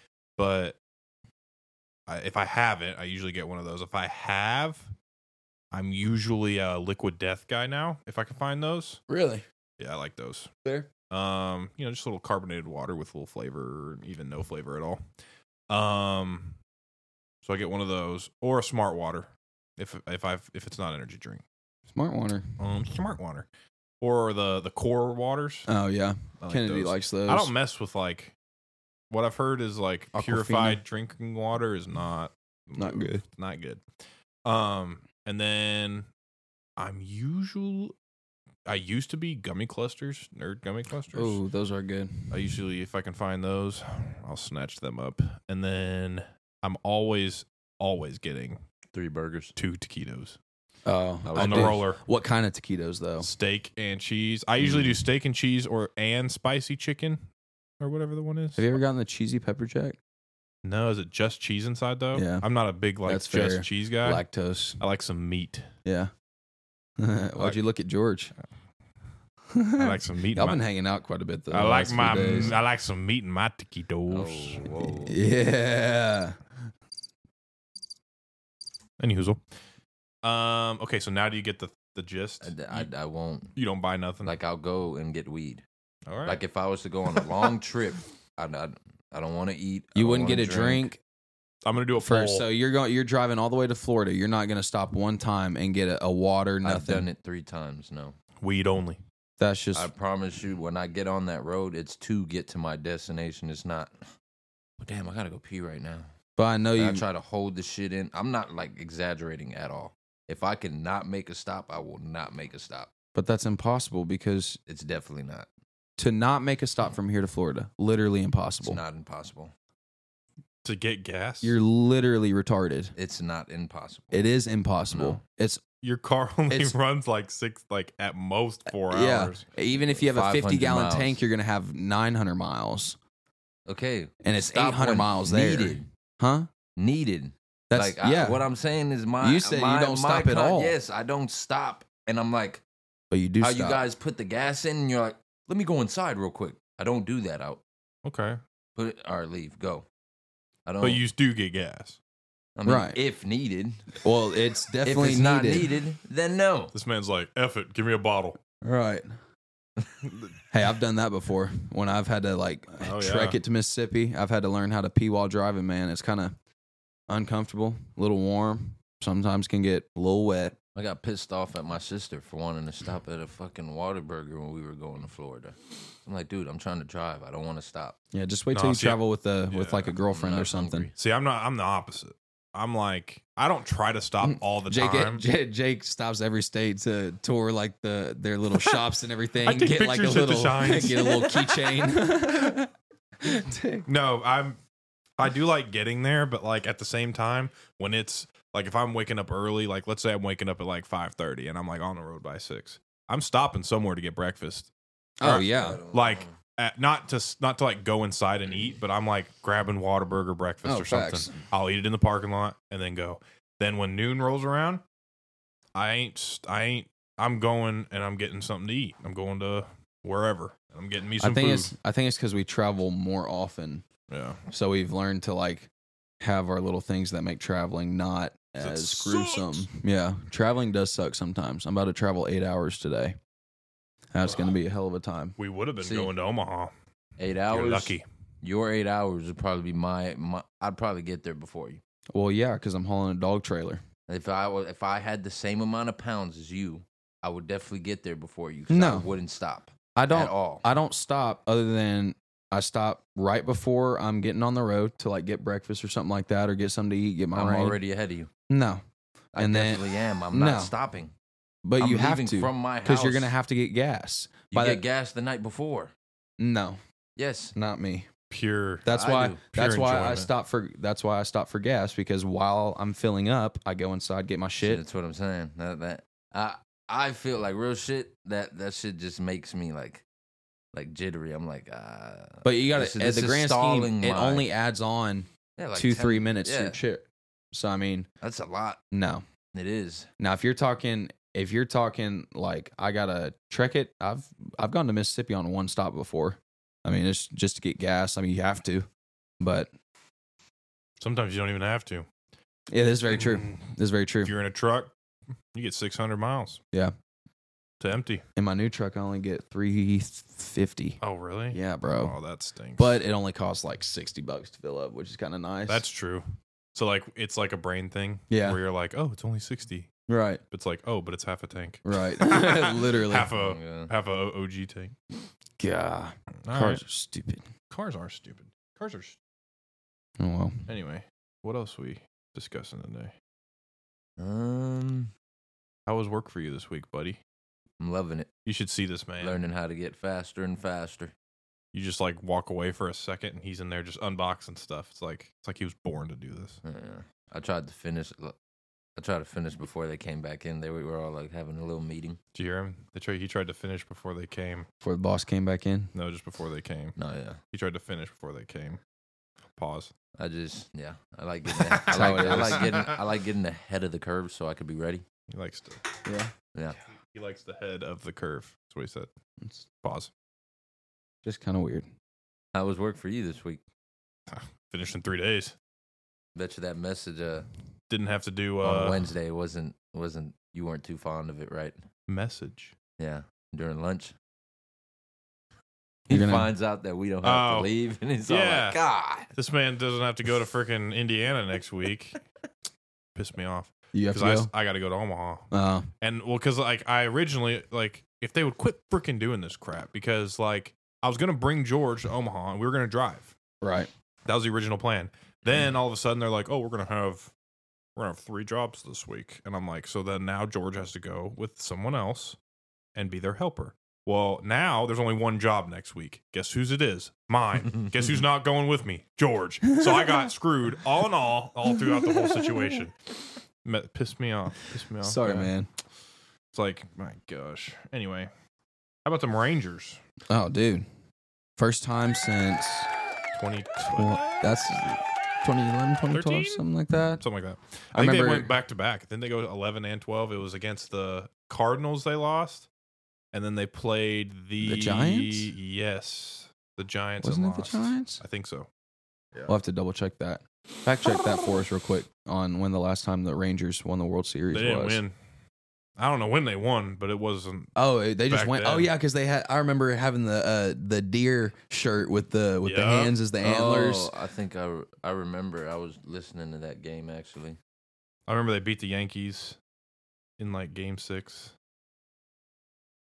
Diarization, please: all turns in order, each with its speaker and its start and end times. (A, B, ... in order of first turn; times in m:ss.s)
0:00.4-0:00.8 A
0:02.1-0:04.9 A
0:05.7-0:09.0 A
0:09.1-0:09.4 B
0:09.8-0:10.5 A
0:11.1-0:15.0 A
0:15.7-0:16.6 A
0:17.4-0:21.4 A
0:21.9-0:22.5 B
0:22.6-0:23.5 A
0:24.0-0:25.7 A
0:25.7-0:27.5 B
0:26.4-0:28.4 A
0:29.1-0:33.8 A
0:30.1-0:30.8 B
0:32.8-0:33.2 B
0:34.4-0:36.1 A
0:36.8-0:37.9 A
0:38.6-0:41.4 A
0:41.1-0:42.4 B
0:42.3-0:48.6 A
0:48.9-0:49.5 C
0:49.6-0:50.4 A
0:50.8-0:53.3 B
0:51.2-0:51.8 C
0:51.4-0:52.0 A
0:53.2-0:57.2 A
0:57.8-0:58.7 A
0:58.6-1:00.0 B
1:00.6-1:04.2 A
1:02.1-1:02.4 B
1:03.0-1:04.8 B
1:04.8-1:05.7 A
1:05.8-1:06.1 B
1:07.0-1:08.3 B
1:07.4-1:07.6 A
1:09.5-1:12.6 B
1:09.7-1:10.6 A
1:11.5-1:14.9 A
1:14.1-1:15.2 C
1:15.0-1:16.4 B
1:19.0-1:19.4 A
1:20.2-1:22.9 A
1:22.4-1:23.5 C
1:23.5-1:24.4 A
1:24.2-1:25.6 C
1:26.1-1:26.4 A
1:26.2-1:30.9 C
1:29.9-1:31.0 B
1:31.6-1:32.5 A
1:32.0-1:37.1 B
1:36.6-1:38.2 C
1:38.4-1:39.0 A
1:39.4-1:39.9 B
1:39.7-1:44.0 C
1:44.8-1:46.1 C
1:46.4-1:47.0 B
1:46.8-1:52.9 C
1:53.1-1:54.6 B
1:54.7-1:55.5 C
1:56.0-1:58.8 B
1:58.6-1:59.5 C
2:00.6-2:01.6 A
2:01.4-2:02.9 B
2:03.0-2:04.2 C
2:04.1-2:05.6 B
2:04.9-2:05.2 C
2:05.8-2:09.4 A
2:06.5-2:06.7 B
2:08.9-2:13.0 B
2:09.9-2:11.2 C
2:13.7-2:15.9 C
2:14.2-2:16.5 B
2:16.8-2:22.6 C
2:17.7-2:18.4 B
2:19.2-2:20.8 B
2:23.1-2:23.8 B
2:23.4-2:27.6 C
2:28.0-2:28.4 A
2:28.8-2:29.9 C
2:30.6-2:31.0 C
2:30.8-2:32.0 A
2:32.6-2:33.9 C
2:32.6-2:33.0 B
2:34.0-2:35.7 B
2:34.8-2:36.7 C
2:36.7-2:38.4 A
2:38.6-2:39.1 B
2:40.5-2:46.3 B
2:42.8-2:43.4 A
2:47.1-2:50.6 B
2:50.7-2:58.0 C
2:58.1-3:00.9 B
2:58.5-2:59.9 A
3:00.1-3:00.9 C
3:01.0-3:05.2 A
3:04.2-3:12.7 B
3:09.4-3:11.3 A
3:13.2-3:13.9 B
3:13.9-3:14.6 A
3:15.2-3:24.7 A
3:25.2-3:25.8 B
3:25.2-3:34.8 A
3:25.4-3:26.4 C
3:30.6-3:31.3 B
3:35.7-3:41.7 A
3:41.2-3:43.8 B
3:44.1-3:44.4 A
3:44.5-3:45.7 B
3:46.2-3:53.2 B
3:48.6-3:49.7 A
3:54.1-3:55.4 B
3:55.4-3:56.7 A
3:55.8-3:56.1 C
3:57.2-4:01.8 C
3:57.5-3:58.0 A
4:02.1-4:03.8 B
4:04.1-4:10.6 C
4:08.7-4:09.1 B
4:10.0-4:17.8 B
4:17.3-4:18.3 C
4:18.5-4:18.8 B
4:19.3-4:20.7 B
4:19.3-4:21.1 C
4:21.6-4:24.8 B
4:21.8-4:23.4 C
4:24.5-4:25.9 C
4:26.4-4:26.8 B
4:27.2-4:27.5 C
4:27.5-4:28.1 B
4:28.3-4:28.9 A
4:28.8-4:34.8 B
4:28.9-4:29.4 C
4:29.5-4:30.3 A
4:34.6-4:40.0 C
4:40.7-4:44.5 C
4:42.4-4:48.1 B
4:45.6-4:46.8 C
4:48.2-4:48.8 C
4:48.9-4:49.2 B
4:49.5-4:50.1 C
4:50.2-4:58.9 B
4:59.4-4:59.7 B
5:01.0-5:02.1 A
5:02.7-5:04.3 B
5:03.1-5:03.6 A
5:04.2-5:04.9 A
5:05.5-5:06.6 A
5:07.8-5:08.2 A
5:08.4-5:11.0 B
5:11.0-5:12.9 A
5:11.5-5:12.1 B
5:12.8-5:15.8 B
5:15.7-5:19.9 A
5:18.3-5:18.6 B
5:20.1-5:20.4 B
5:20.5-5:25.0 A
5:21.8-5:23.3 B
5:23.3-5:23.9 C
5:25.6-5:27.4 B
5:26.4-5:26.8 A
5:27.7-5:29.2 A
5:30.2-5:30.6 B
5:30.7-5:33.1 A
5:34.2-5:35.1 C
5:35.9-5:37.2 A
5:37.8-5:38.3 C
5:38.4-5:39.4 A
5:39.2-5:41.1 C
5:41.7-5:46.6 A
5:46.6-5:48.4 C
5:49.0-5:52.2 C
5:52.4-5:54.7 A
5:54.8-5:55.9 B
5:55.9-5:56.9 A
5:57.0-5:57.4 C
5:57.5-5:58.8 A
5:59.5-5:59.9 A
6:00.2-6:05.0 C
6:01.6-6:02.9 A
6:01.9-6:02.8 B
6:05.3-6:05.8 A
6:06.0-6:06.3 B
6:07.1-6:09.1 A
6:09.8-6:10.1 A
6:11.2-6:11.9 B
6:12.5-6:13.6 C
6:14.3-6:15.6 A
6:16.4-6:17.5 C
6:17.9-6:19.1 A
6:18.6-6:21.8 C
6:22.1-6:22.7 A
6:23.0-6:24.1 C
6:26.1-6:26.5 B
6:26.1-6:29.3 C
6:27.2-6:27.7 A
6:28.3-6:28.8 A
6:29.3-6:32.2 A
6:33.1-6:35.5 A
6:33.9-6:34.5 B
6:35.5-6:35.9 B
6:36.0-6:43.3 A
6:43.6-6:43.9 B
6:44.2-6:47.3 A
6:48.0-6:52.4 A
6:53.0-7:02.9 A
7:03.6-7:05.5 A
7:05.0-7:05.7 B
7:06.5-7:08.3 A
7:09.0-7:10.0 A
7:10.3-7:10.9 B
7:11.6-7:12.9 B
7:13.3-7:14.4 A
7:14.0-7:17.2 B
7:16.1-7:16.6 A
7:17.2-7:22.7 A
7:17.9-7:18.5 B
7:23.3-7:28.7 A
7:24.6-7:25.5 B
7:27.2-7:28.2 B
7:29.5-7:35.0 B
7:34.5-7:35.1 A
7:36.0-7:37.7 A
7:37.8-7:44.1 B
7:38.3-7:38.9 A
7:42.6-7:43.2 A
7:43.4-7:47.6 C
7:48.3-7:49.6 A
7:50.4-7:51.5 A